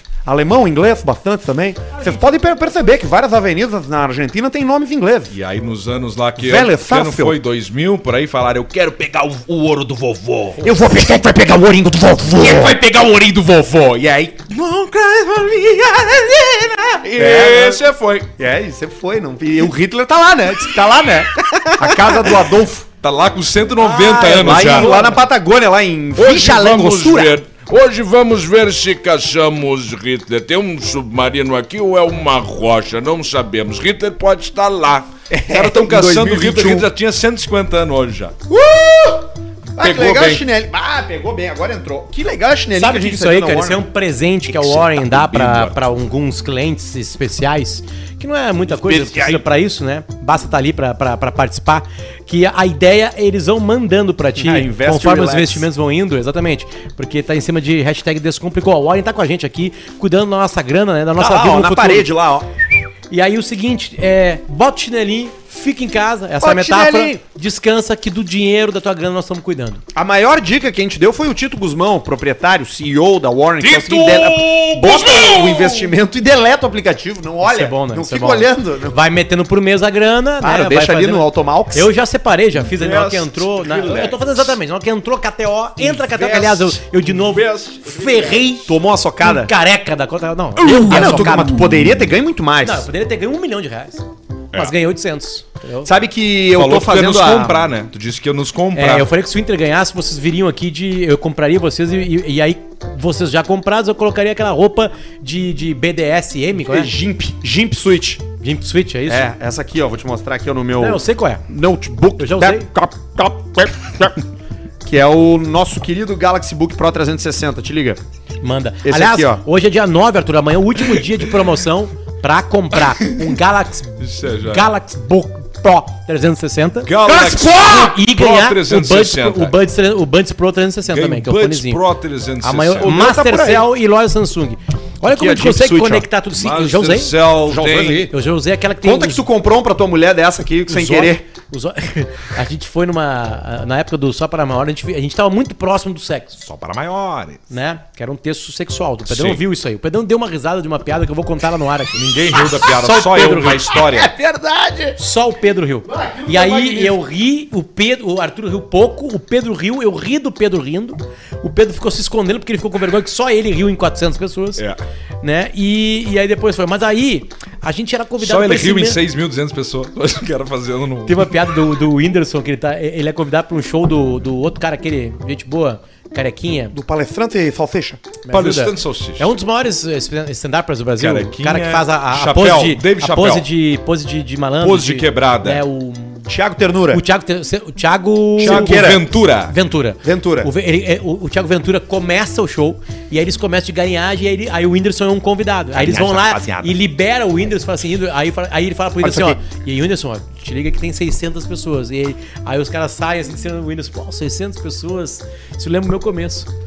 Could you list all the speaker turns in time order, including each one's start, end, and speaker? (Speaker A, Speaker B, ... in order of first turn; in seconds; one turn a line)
Speaker A: 0.2-5.3
Speaker B: 1.9-2.8
Speaker C: 5.3-10.6
Speaker A: 6.4-7.4
Speaker A: 10.6-12.8
Speaker C: 12.3-18.3
Speaker A: 14.0-14.4
Speaker A: 17.1-17.8
Speaker A: 18.4-22.9
Speaker C: 21.4-22.1
Speaker C: 23.0-25.0
Speaker B: 23.8-25.2
Speaker A: 23.8-27.3
Speaker C: 26.1-38.3
Speaker A: 35.3-36.9
Speaker A: 38.5-43.8
Speaker C: 39.8-40.4
Speaker B: 42.8-62.1
Speaker C: 44.5-45.8
Speaker C: 48.7-49.4
Speaker A: 54.4-55.7
Speaker A: 61.2-62.5
Speaker B: 63.1-69.8
Speaker A: 66.4-67.2
Speaker A: 69.9-79.0
Speaker C: 73.6-75.9
Speaker B: 77.4-91.6
Speaker A: 80.4-81.9
Speaker C: 82.6-84.6
Speaker C: 85.8-88.5
Speaker A: 88.7-89.5
Speaker C: 90.6-92.1
Speaker A: 90.8-92.9
Speaker B: 92.6-95.9
Speaker A: 95.8-97.7
Speaker C: 96.5-99.1
Speaker B: 98.8-106.9
Speaker A: 106.6-108.2
Speaker B: 108.4-109.3
Speaker A: 109.1-114.2
Speaker B: 110.8-111.4
Speaker B: 112.2-112.7
Speaker A: 114.8-118.0
Speaker B: 118.4-131.8
Speaker A: 118.8-119.4
Speaker C: 124.0-124.7
Speaker C: 126.8-129.5
Speaker C: 130.8-132.9
Speaker B: 132.4-137.2
Speaker A: 132.8-133.7
Speaker A: 135.1-136.0
Speaker C: 136.3-138.1
Speaker A: 137.4-138.1
Speaker B: 138.1-139.2
Speaker A: 138.8-141.2
Speaker B: 140.7-146.4
Speaker C: 146.4-147.4
Speaker B: 147.5-153.8
Speaker C: 149.1-149.4
Speaker C: 151.9-154.1
Speaker A: 153.8-154.9
Speaker B: 154.9-164.6
Speaker A: 155.9-157.0
Speaker B: 165.2-169.0
Speaker C: 168.2-171.4
Speaker B: 171.1-176.8
Speaker A: 176.7-178.0
Speaker B: 178.2-186.3
Speaker C: 178.3-179.3
Speaker C: 181.0-183.5
Speaker C: 184.6-185.6
Speaker A: 186.3-187.0
Speaker B: 186.9-188.8
Speaker A: 188.4-189.1
Speaker C: 188.4-189.5
Speaker B: 189.5-206.5
Speaker A: 190.0-190.5
Speaker C: 195.8-196.7
Speaker A: 199.0-199.4